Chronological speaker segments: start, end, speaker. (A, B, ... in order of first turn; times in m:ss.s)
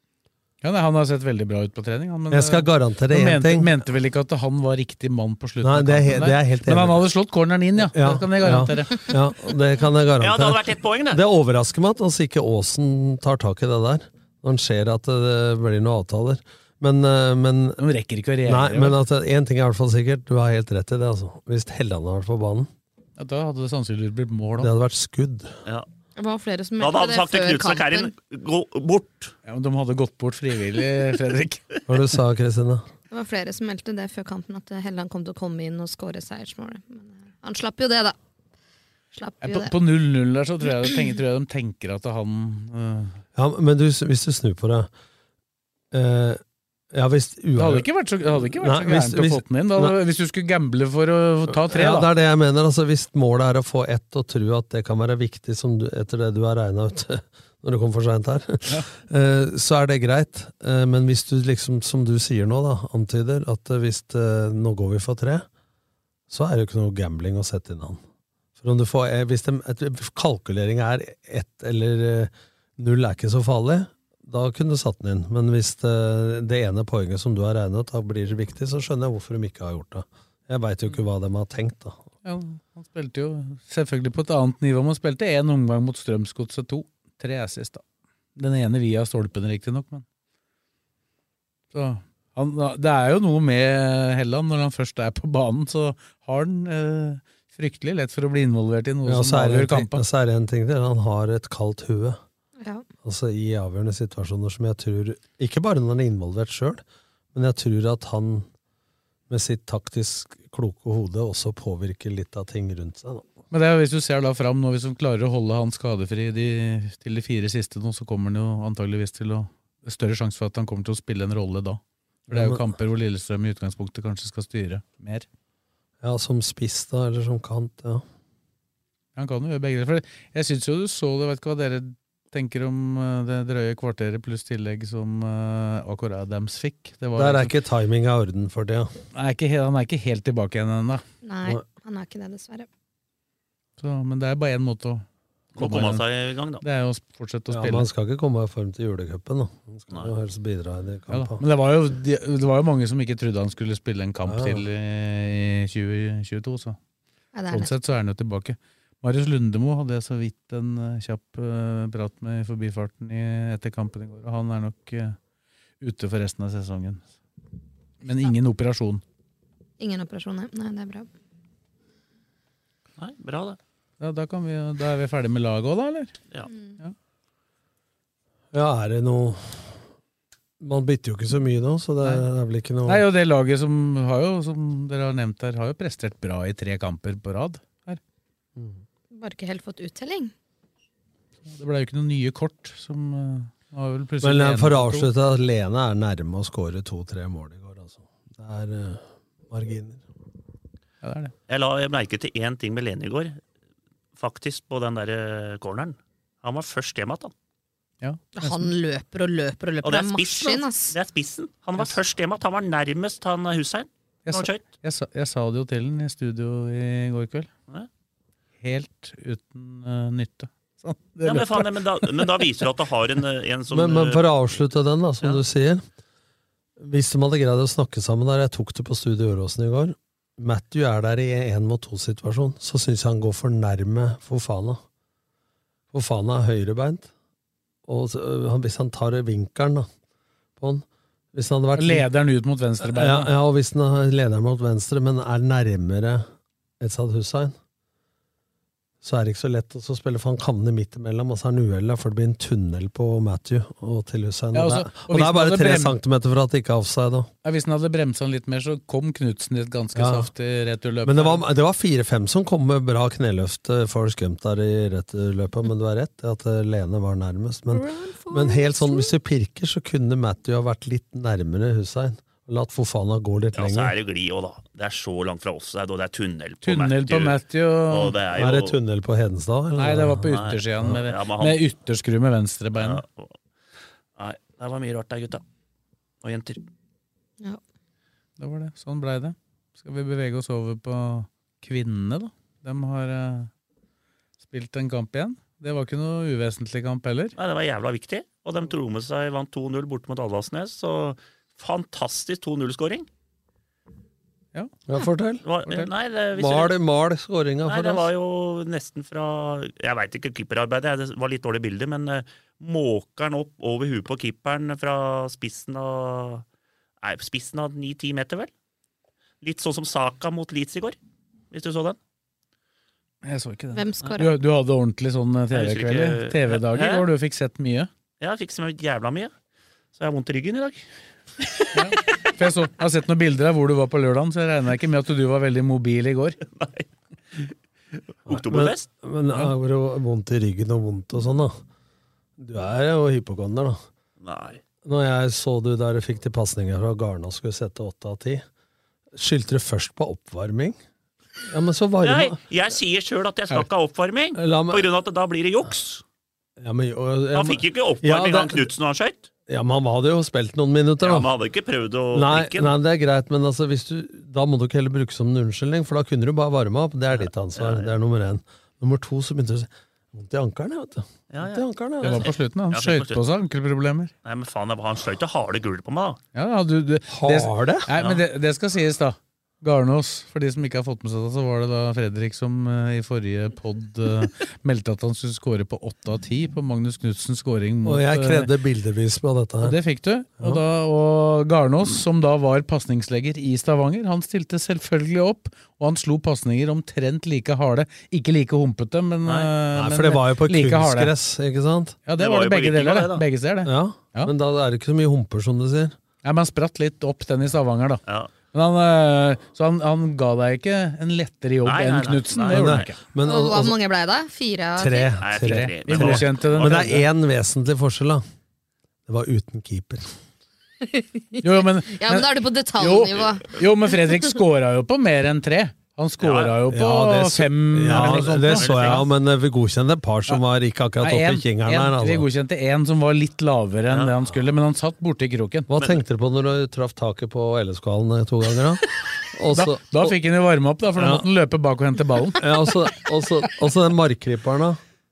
0:00.6-0:09.1 A
0:02.3-0:03.7 B
0:05.6-0:07.0 B
0:07.8-0:17.8 B
0:10.2-0:11.2 C
0:17.8-0:19.0 A
0:18.5-0:22.7 B
0:23.2-0:24.7 A
0:24.6-0:25.5 B
0:26.2-0:28.1 D
0:26.8-0:29.3 C
0:29.5-0:31.7 A
0:31.9-0:32.9 B
0:33.1-0:38.2 D
0:39.1-0:39.7 D
0:39.4-0:43.2 A
0:43.4-0:44.9 B
0:45.9-0:46.4 B
0:46.9-0:47.9 B
0:47.6-0:52.1 A
0:48.5-0:49.9 B
0:51.6-1:05.5 B
1:06.3-1:08.0 B
1:08.6-1:22.0 B
1:22.2-1:27.8 A
1:28.4-1:30.0 A
1:31.7-1:40.0 A
1:39.1-1:42.2 B
1:42.6-1:42.9 D
1:43.0-1:46.8 B
1:47.3-1:48.5 B
1:49.3-1:53.3 B
1:53.5-2:05.3 A
2:02.3-2:02.7 B
2:06.0-2:08.0 B
2:09.2-2:17.6 A
2:17.2-2:18.9 B
2:19.1-2:21.0 A
2:21.2-2:22.7 D
2:23.8-2:26.0 A
2:25.6-2:26.6 C
2:26.6-2:27.9 A
2:27.5-2:31.4 B
2:31.1-2:36.8 A
2:34.3-2:34.6 B
2:37.3-2:37.7 D
2:37.5-2:45.2 A
2:45.8-2:47.1 A
2:48.0-2:49.0 A
2:49.8-2:51.1 D
2:53.0-2:53.6 C
2:54.0-2:56.1 A
2:56.5-2:56.8 D
2:58.5-2:59.8 B
3:00.6-3:03.0 B
3:02.9-3:08.0 A
3:08.6-3:08.8 B
3:09.1-3:10.3 D
3:11.5-3:15.1 A
3:14.2-3:20.0 B
3:21.0-3:21.3 A
3:21.5-3:23.4 C
3:24.2-3:27.3 C
3:28.0-3:28.7 A
3:28.4-3:31.0 D
3:29.8-3:34.6 C
3:34.3-3:37.5 A
3:38.6-3:42.1 A
3:41.2-3:44.2 C
3:43.7-3:45.8 B
3:46.8-3:54.8 B
3:55.9-3:57.1 B
3:57.9-3:59.9 B
4:00.6-4:02.1 B
4:01.8-4:03.3 A
4:02.8-4:06.3 B
4:06.8-4:07.6 B
4:09.0-4:17.3 B
4:14.5-4:16.0 A
4:17.4-4:21.4 A
4:20.0-4:20.3 B
4:21.0-4:34.0 B
4:27.7-4:29.2 D
4:33.6-4:38.8 C
4:36.6-4:38.2 A
4:38.3-4:40.3 B
4:39.8-4:43.0 A
4:40.3-4:41.6 C
4:42.8-4:43.4 C
4:44.2-4:45.4 C
4:46.2-4:46.6 C
4:48.4-4:53.5 A
4:54.4-4:57.4 A
4:57.4-5:03.1 C
5:04.9-5:05.4 B
5:05.4-5:06.8 C
5:06.4-5:08.1 B
5:07.7-5:16.4 C
5:17.0-5:18.5 C
5:19.4-5:21.0 C
5:21.5-5:22.0 C
5:23.2-5:27.9 A
5:23.8-5:24.3 D
5:25.5-5:27.1 C
5:28.2-5:29.3 C
5:30.0-5:30.9 C
5:31.7-5:36.4 A
5:36.6-5:36.9 C
5:38.2-5:38.9 C
5:38.3-5:41.6 B
5:42.4-5:43.8 B
5:44.2-5:44.6 C
5:44.8-5:48.4 B
5:49.2-5:50.8 B
5:51.4-5:52.4 B
5:52.0-5:56.0 C
5:54.4-5:54.9 B
5:56.6-5:58.7 B
5:57.3-5:59.3 C
5:59.5-6:01.3 B
6:01.0-6:02.8 C
6:02.1-6:12.3 B
6:07.6-6:07.9 C
6:11.3-6:13.2 C
6:12.0-6:14.1 A
6:14.2-6:16.2 C
6:16.4-6:28.5 A
6:17.1-6:17.9 B
6:27.8-6:29.8 B
6:29.6-6:41.1 A
6:39.2-6:39.5 C
6:39.8-6:42.0 B
6:42.1-6:44.3 A
6:42.2-6:43.2 C
6:43.6-6:46.0 B
6:46.2-6:53.0 A
6:48.1-6:48.3 C
6:51.6-6:52.9 C
6:52.5-6:53.8 B
6:53.2-6:55.2 D
6:54.8-6:58.2 B
6:55.2-6:56.9 C
6:55.4-6:57.1 A
6:59.1-7:00.1 B
7:00.8-7:03.5 D
7:01.4-7:09.0 A
7:06.2-7:06.6 C
7:06.7-7:12.3 B
7:07.9-7:09.1 C
7:11.0-7:15.7 A
7:15.7-7:20.2 B
7:19.5-7:22.5 A
7:21.0-7:21.3 B
7:22.4-7:24.8 B